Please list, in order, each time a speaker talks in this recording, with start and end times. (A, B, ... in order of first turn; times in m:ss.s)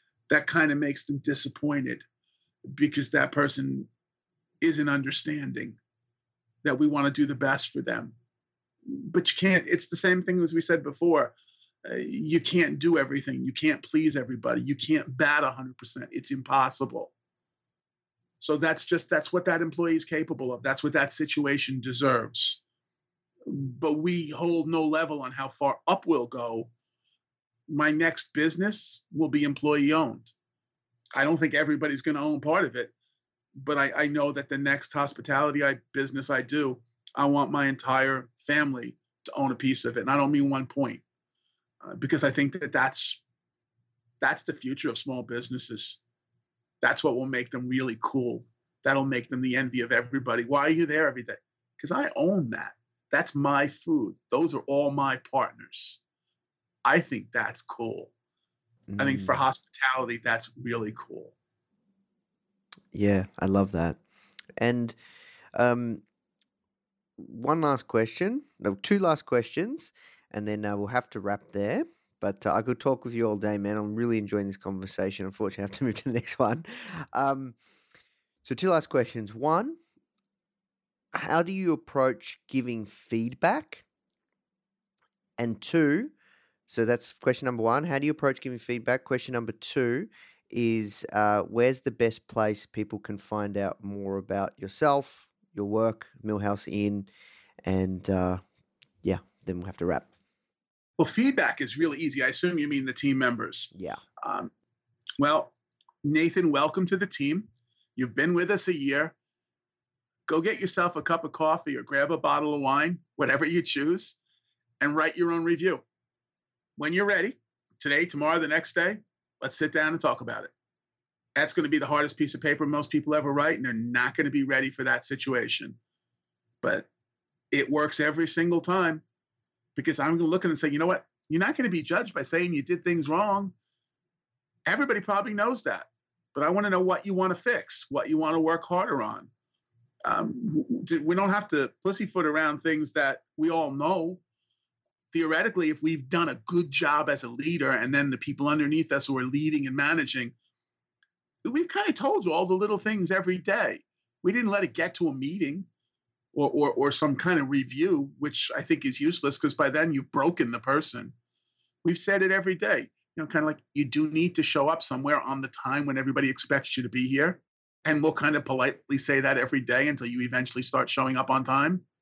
0:00.3-0:02.0 A
0:02.7-0:03.9 A
0:04.6-0:05.8 A
0:06.6-0:08.1 A
0:08.9-0:11.3 A
0:11.8-0:17.1 A
0:18.4-0:22.6 A
0:23.4-0:26.7 A
0:27.7-0:30.3 A
0:31.2-0:32.9 A
0:33.6-0:41.0 A
0:41.8-0:43.2 A
0:44.2-0:46.0 A
0:46.8-0:56.0 A
0:56.8-0:58.1 A
0:58.9-0:59.4 B
0:59.0-1:01.3 A
1:02.9-1:04.0 B
1:04.6-1:05.0 B
1:05.6-1:06.0 B
1:07.2-1:17.6 B
1:18.4-1:19.8 B
1:21.2-1:23.8 B
1:25.4-1:26.1 B
1:26.7-1:37.1 B
1:37.6-1:38.4 B
1:39.0-1:40.1 B
1:41.0-1:44.5 A
1:43.7-1:44.0 B
1:45.2-1:49.1 A
1:50.3-1:54.2 A
1:54.8-1:55.8 A
1:56.8-2:00.5 A
2:01.4-2:05.8 A
2:06.6-2:06.9 A
2:07.5-2:09.0 A
2:09.8-2:13.5 A
2:14.7-2:19.3 A
2:20.1-2:24.2 A
2:25.1-2:30.3 A
2:31.4-2:35.7 A
2:36.3-2:41.1 A
2:41.8-2:51.8 A